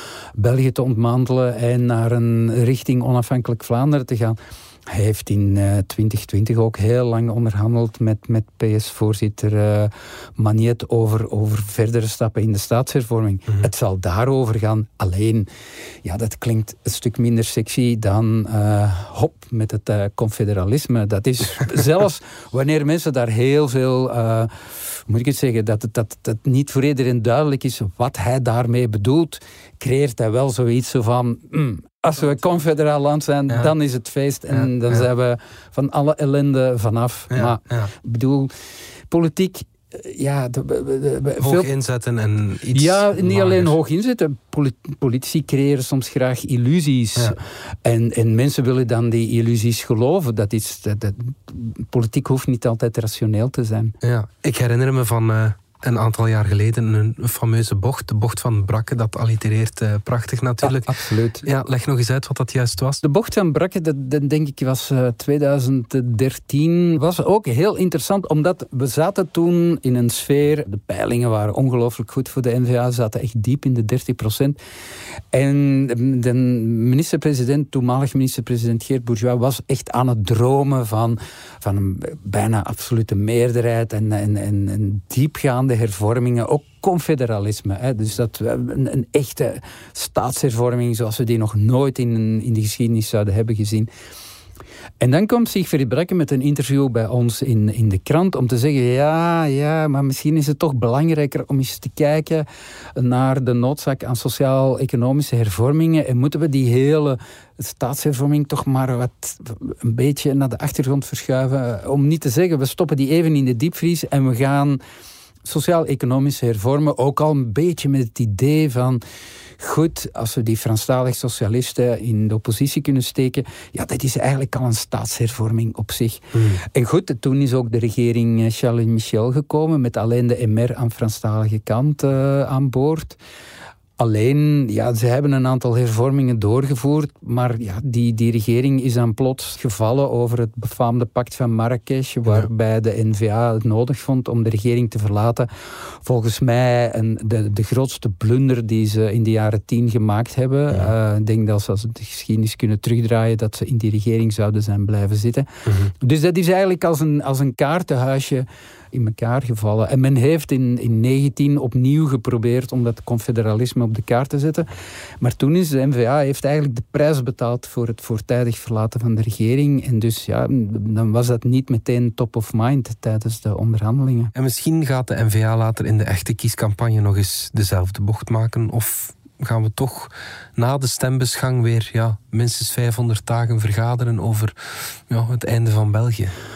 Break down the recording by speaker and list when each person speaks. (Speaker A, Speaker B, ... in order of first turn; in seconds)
Speaker A: 0.3-15.5, 16.0-38.5, 39.1-41.7, 42.7-53.9, 60.6-61.5, 63.0-74.6, 75.3-93.9, 95.0-114.8, 115.4-119.0, 119.6-133.2, 134.0-145.5, 146.0-164.7, 165.2-174.3
Speaker B: 33.5-33.7, 34.5-35.0, 37.3-37.9, 41.4-43.7, 54.0-63.0, 126.3-126.6, 174.3-184.5, 185.1-186.3